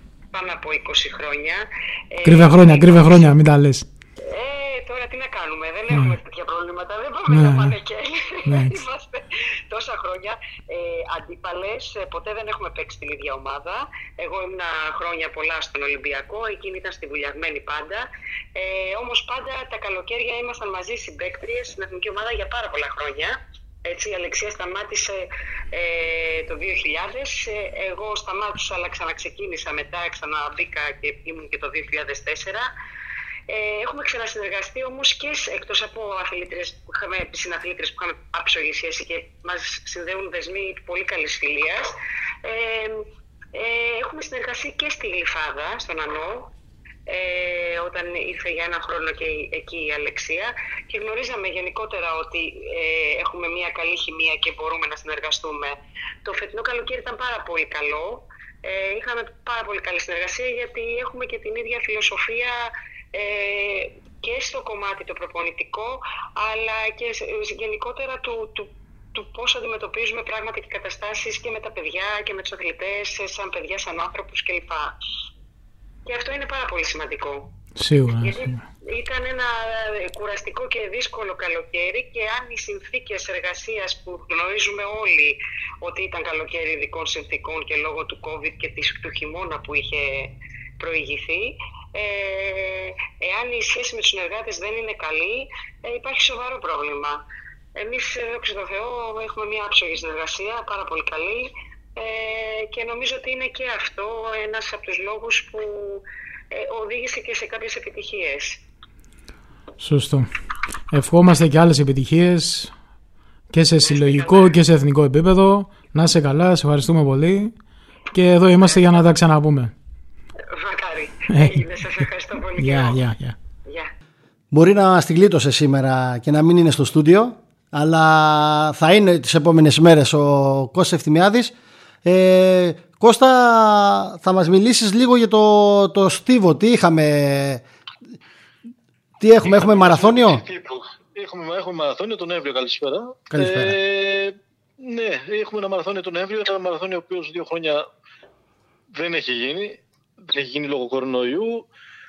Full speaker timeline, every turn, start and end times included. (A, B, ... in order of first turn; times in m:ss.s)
0:00.3-0:03.3 A
0:02.2-0:03.8 B
0:04.2-0:32.7 A
0:07.3-0:07.8 B
0:08.5-0:08.8 B
0:33.5-0:46.5 A
0:47.1-1:14.9 A
1:16.1-1:17.5 A
1:17.8-1:18.6 B
1:18.2-1:37.2 A
1:37.8-1:48.6 A
1:49.8-1:50.3 B
1:50.9-1:52.7 B
1:53.5-1:57.5 B
1:53.8-1:54.5 A
1:58.1-1:59.7 B
1:58.6-1:59.1 A
2:00.5-2:03.0 A
2:01.3-2:02.0 B
2:02.6-2:03.4 B
2:04.5-2:11.5 C
2:12.0-2:17.6 C
2:19.2-2:20.4 C
2:19.4-2:27.8 D
2:23.3-2:23.8 C
2:28.9-2:31.6 D